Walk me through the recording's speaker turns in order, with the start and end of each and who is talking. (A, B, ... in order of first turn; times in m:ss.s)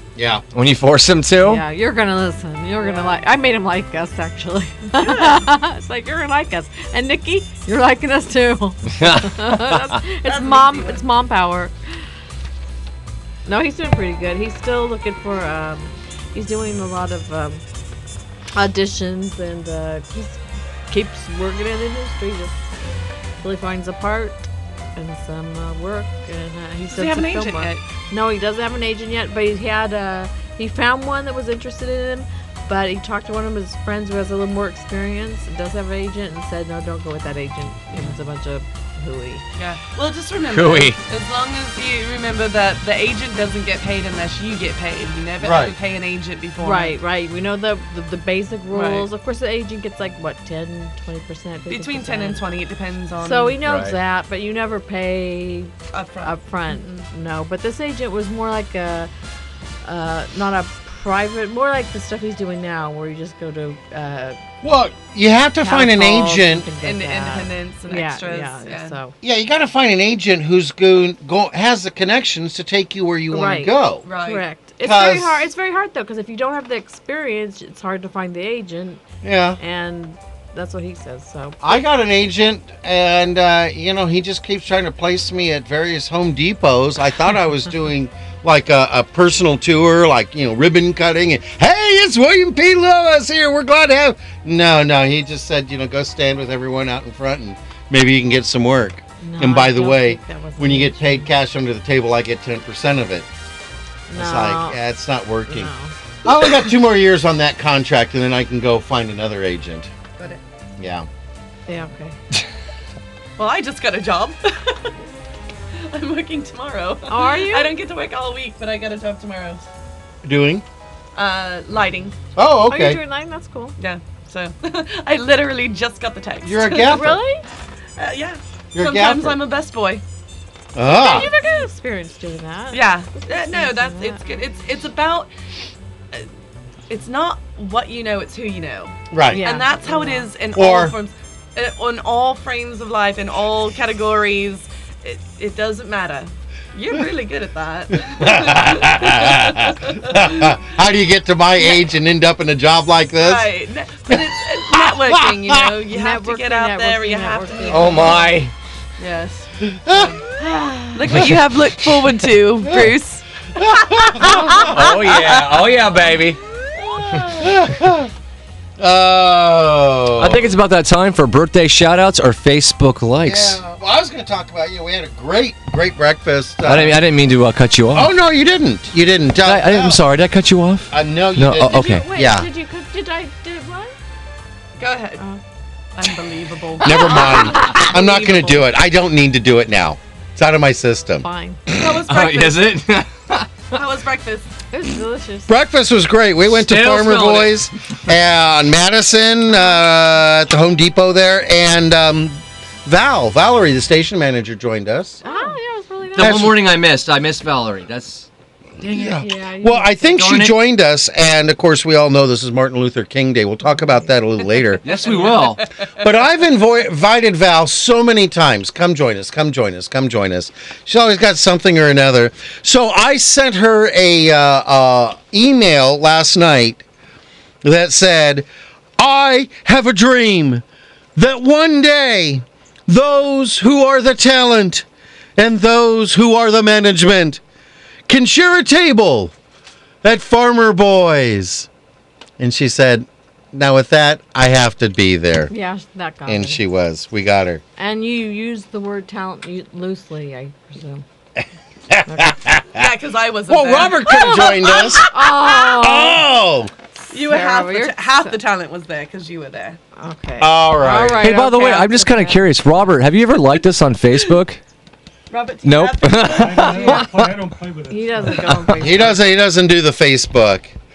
0:00.2-0:00.4 A
0:00.5-0:01.6 B
0:01.4-0:11.7 C
0:02.8-0:03.2 D
0:05.0-0:05.4 D
0:08.9-0:10.0 B
0:10.2-0:11.0 D
0:13.5-0:17.6 C
0:18.5-0:20.4 C
0:20.9-0:22.6 C
0:23.4-0:39.4 C
0:26.9-0:27.8 D
0:39.6-0:47.0 D
0:40.5-0:41.0 B
0:45.4-0:45.7 A
0:46.6-0:52.4 C
0:48.7-0:49.1 D
0:51.7-0:53.6 D
0:53.2-0:55.7 C
0:53.6-0:54.0 B
0:55.9-0:57.0 D
0:56.2-0:59.1 C
0:59.8-1:04.4 C
1:04.6-1:06.7 A
1:05.6-1:09.1 C
1:06.8-1:09.0 D
1:09.2-1:14.0 A
1:13.3-1:19.0 C
1:14.0-1:14.4 D
1:14.8-1:15.4 A
1:19.2-1:19.6 A
1:19.6-1:21.8 C
1:21.6-1:43.3 A
1:39.2-1:41.3 C
1:44.1-1:44.8 C
1:44.2-1:45.7 A
1:45.5-1:45.9 C
1:46.2-1:49.9 A
1:50.8-1:51.1 A
1:51.7-1:52.2 C
1:53.4-1:54.9 D
1:55.9-1:59.6 D
1:57.1-1:57.7 C
2:00.2-2:00.6 A
2:01.2-2:02.2 D
2:02.4-2:03.0 A
2:02.7-2:03.8 C
2:03.8-2:07.1 D
2:06.4-2:07.2 A
2:06.8-2:07.4 C
2:08.0-2:10.0 D
2:08.7-2:09.4 A
2:10.8-2:11.3 A
2:10.8-2:14.2 C
2:11.0-2:11.3 D
2:12.7-2:15.3 D
2:16.9-2:30.5 D
2:19.1-2:19.4 A
2:19.3-2:20.3 C
2:20.6-2:21.0 A
2:28.0-2:33.5 A
2:33.2-2:38.2 D
2:34.7-2:35.7 A
2:35.9-2:38.2 C
2:37.7-2:38.5 B
2:39.0-2:40.2 D
2:39.6-2:40.2 A
2:40.4-2:41.2 C
2:40.9-2:45.9 D
2:43.6-2:44.7 A
2:44.4-2:46.4 B
2:46.8-2:47.5 D
2:47.4-2:48.1 A
2:48.8-2:50.5 A
2:50.2-2:53.6 B
2:53.2-2:57.0 A
2:56.6-2:58.1 B
2:57.9-3:00.0 A
2:59.4-3:02.1 B
3:00.9-3:02.5 A
3:01.6-3:04.0 C
3:04.8-3:05.2 D
3:06.0-3:08.6 D
3:06.8-3:11.3 A
3:06.8-3:08.4 C
3:11.2-3:11.6 C
3:11.7-3:12.8 D
3:11.8-3:13.8 B
3:13.7-3:14.5 D
3:14.7-3:15.5 C
3:15.5-3:25.2 A
3:16.5-3:17.6 B
3:25.2-3:26.5 C
3:25.3-3:25.5 D
3:26.2-3:28.3 B
3:26.2-3:26.7 A
3:28.8-3:34.9 A
3:28.9-3:30.2 C
3:30.2-3:30.6 B
3:34.8-3:35.6 B
3:34.8-3:35.7 D
3:36.0-3:46.8 A
3:47.6-3:48.5 A
3:49.0-3:50.6 A
3:51.2-3:54.9 A
3:55.4-3:57.4 A
3:58.1-3:59.3 A
4:00.0-4:01.7 A
4:02.4-4:05.5 A
4:05.5-4:06.6 C
4:06.3-4:07.6 A
4:07.8-4:11.0 C
4:11.4-4:12.9 A
4:12.1-4:12.4 C
4:12.8-4:15.6 D
4:13.5-4:15.1 A
4:14.1-4:16.2 C
4:15.7-4:16.7 A
4:17.0-4:18.4 C
4:17.1-4:19.8 D
4:20.0-4:22.4 C
4:20.4-4:21.3 A
4:21.2-4:24.6 B
4:25.3-4:27.0 D
4:25.6-4:27.2 B
4:26.4-4:28.4 E
4:27.9-4:29.3 C
4:28.8-4:30.7 A